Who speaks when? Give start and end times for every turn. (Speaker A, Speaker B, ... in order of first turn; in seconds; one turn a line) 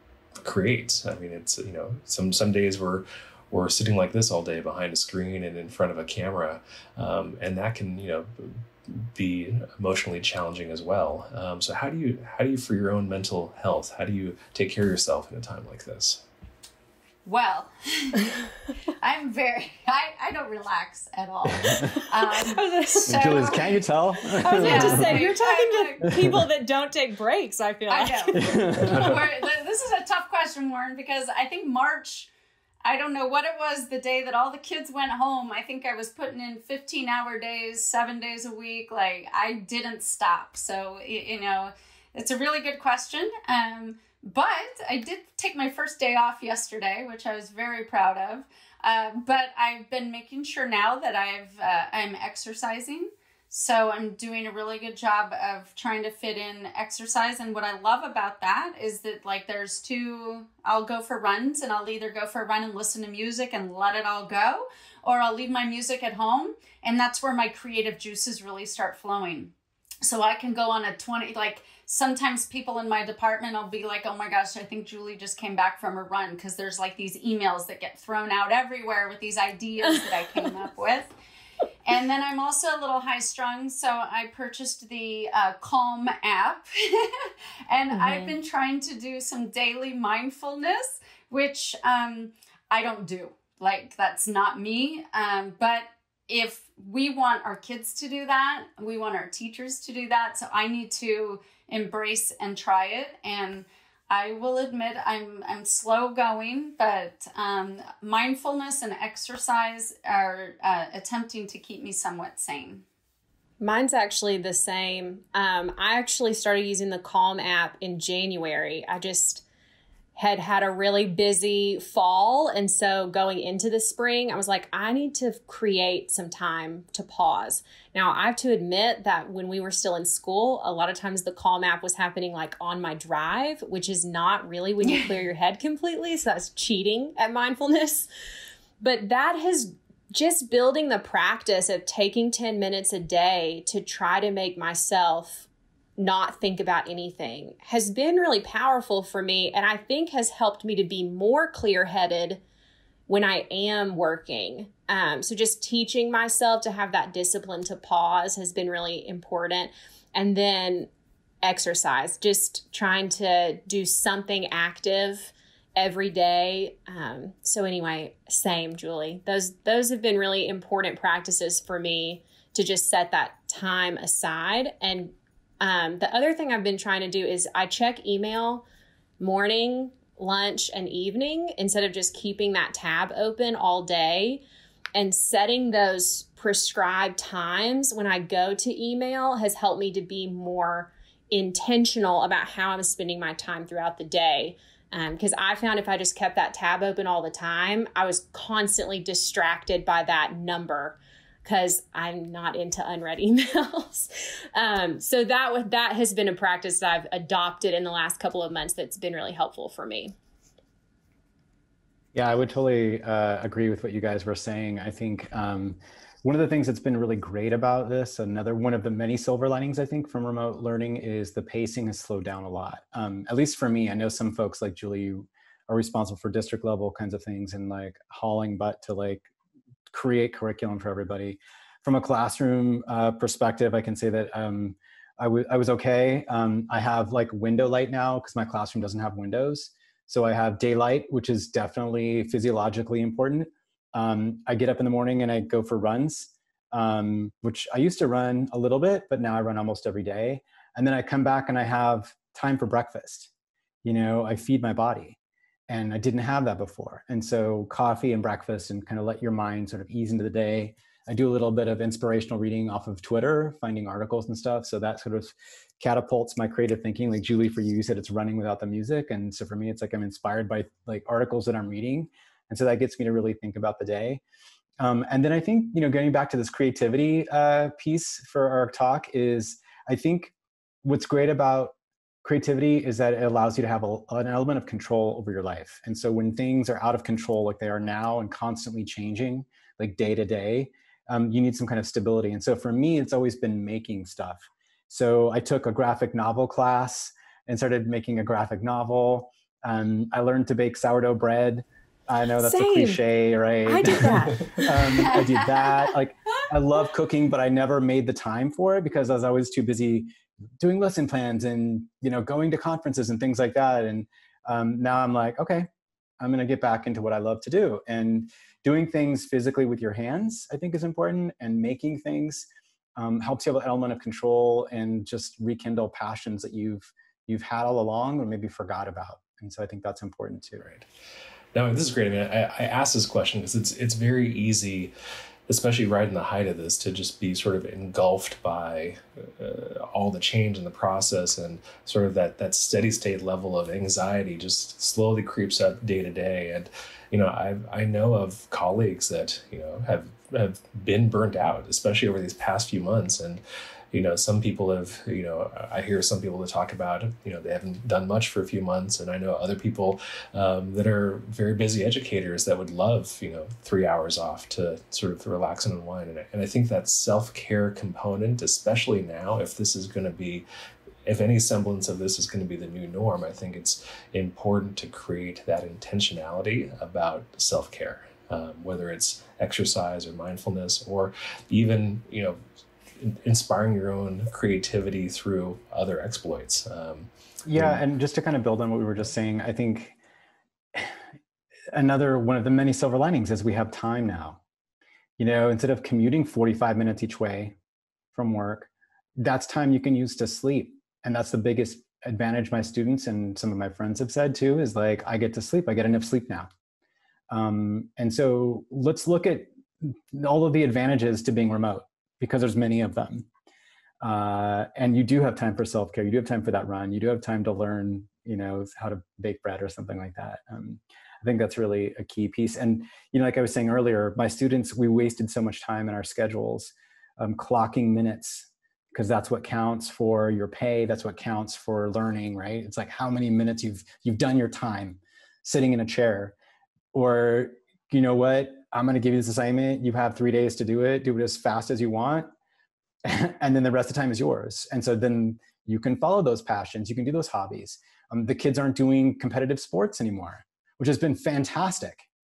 Speaker A: 0.4-16.2
Speaker B: 17.2-18.3
Speaker B: 19.0-23.8
Speaker C: 21.5-21.9
Speaker D: 21.8-23.4
Speaker C: 23.1-25.3
Speaker B: 24.3-26.1
Speaker D: 24.4-28.8
Speaker B: 27.9-32.3
Speaker C: 28.4-29.2
Speaker B: 32.8-81.1
Speaker D: 79.9-80.5
Speaker B: 81.8-112.8
Speaker D: 87.9-88.4
Speaker D: 113.6-119.4
Speaker D: 120.2-138.1
Speaker D: 138.8-152.4
Speaker D: 153.1-160.9
Speaker D: 161.4-178.6
Speaker D: 179.2-184.4
Speaker D: 184.9-210.2
Speaker C: 212.1-229.3
Speaker C: 229.9-253.3
Speaker C: 253.8-255.2
Speaker C: 255.7-274.2
Speaker C: 274.8-280.3
Speaker C: 280.8-315.7
Speaker D: 302.4-303.0
Speaker D: 303.6-305.2
Speaker C: 316.2-322.4
Speaker C: 323.0-330.7
Speaker A: 331.6-334.9
Speaker A: 335.5-370.4
Speaker A: 371.1-382.4
Speaker A: 383.0-387.8
Speaker C: 387.5-390.0
Speaker C: 391.7-394.4
Speaker C: 395.2-397.6
Speaker C: 398.1-406.5
Speaker C: 407.3-413.3
Speaker C: 414.0-436.4
Speaker C: 436.9-442.3
Speaker C: 443.0-452.0